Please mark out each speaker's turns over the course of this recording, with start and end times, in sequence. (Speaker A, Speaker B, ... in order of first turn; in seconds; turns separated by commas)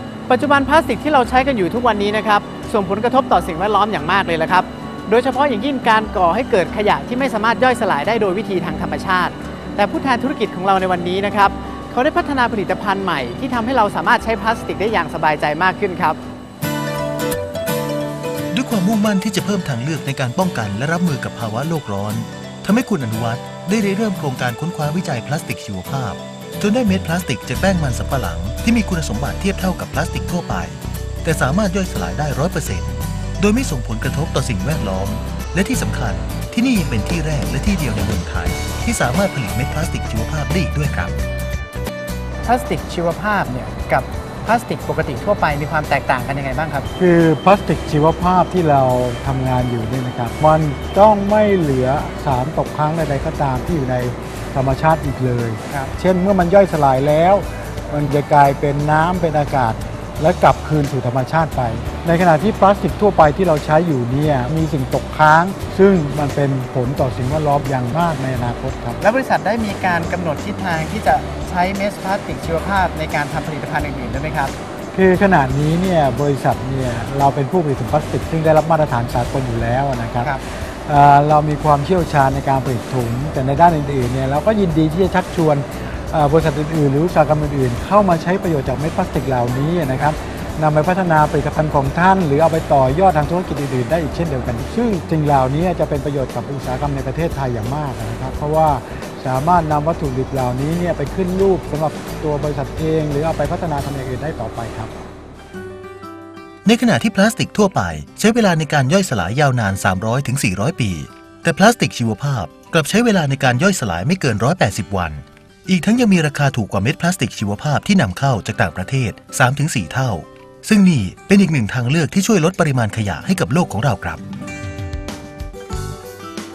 Speaker A: 0.3-16.2, Speaker B: 18.5-41.1, Speaker A: 42.4-46.9, Speaker C: 47.0-69.0, Speaker A: 69.0-74.5, Speaker C: 74.9-104.9, Speaker B: 106.6-124.2